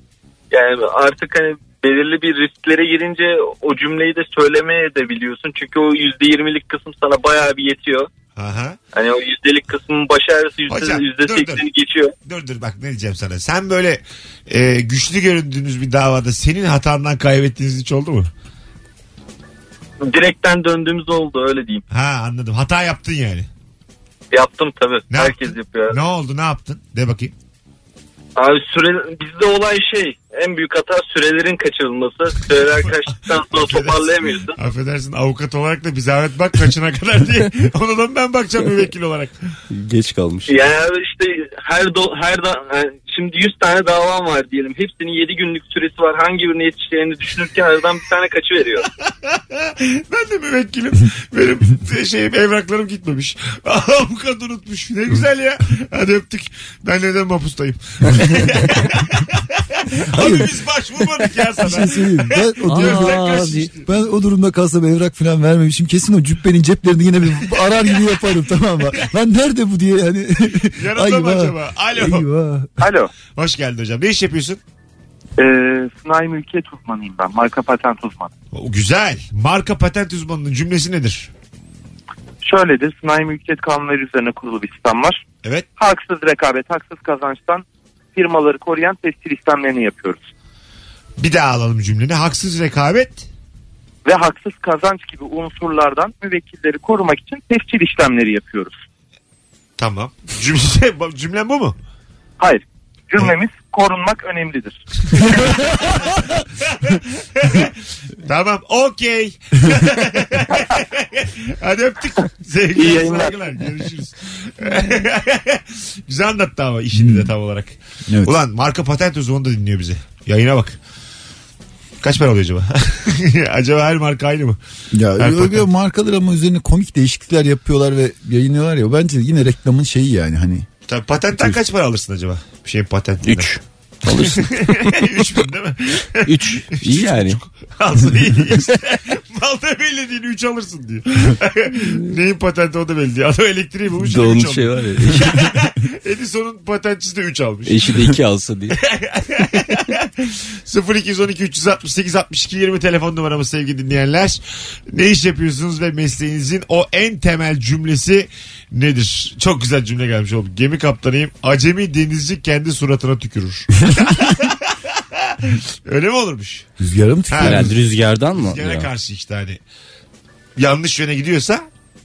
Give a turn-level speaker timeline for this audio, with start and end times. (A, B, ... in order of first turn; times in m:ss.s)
0:00.5-0:08.1 A
0:08.4-0:08.8 B
0:08.9-0:12.1 A
0:10.7-0:11.6 B
0:12.2-0:18.3 B
0:20.0-0:21.8 A
0:21.9-0:23.5 B
0:24.3-0:26.0 A
0:25.1-0:27.3 B
0:28.4-0:34.6 A
0:32.8-0:39.3 B
0:39.7-0:40.5 C
0:40.5-0:48.9 A
0:49.3-1:03.8 B
1:00.1-1:00.5 D
1:01.6-1:12.7 D
1:02.7-1:03.7 C
1:10.7-1:12.2 B
1:12.8-1:13.1 E
1:13.4-1:14.6 B
1:15.4-1:18.3 E
1:18.5-1:21.3 B
1:22.4-1:25.2 E
1:25.8-1:27.6 E
1:28.1-1:30.2 E
1:31.2-1:33.3 B
1:34.0-1:38.8 E
1:39.8-1:41.8 B
1:42.4-1:45.2 E
1:45.6-1:46.0 B
1:46.6-1:47.7 B
1:48.2-2:00.8 B
1:56.9-1:57.3 D
1:58.1-1:58.3 D
2:02.0-2:04.6 B
2:04.9-2:10.7 D
2:05.2-2:05.7 B
2:10.9-2:13.5 B
2:13.2-2:15.0 C
2:14.1-2:28.0 B
2:16.2-2:17.4 C
2:21.8-2:22.1 C
2:24.0-2:25.5 C
2:27.6-2:28.8 C
2:28.8-2:46.6 B
2:46.8-2:47.7 D
2:47.3-2:47.7 B
2:47.4-2:48.9 C
2:48.3-2:49.6 B
2:50.6-2:51.6 B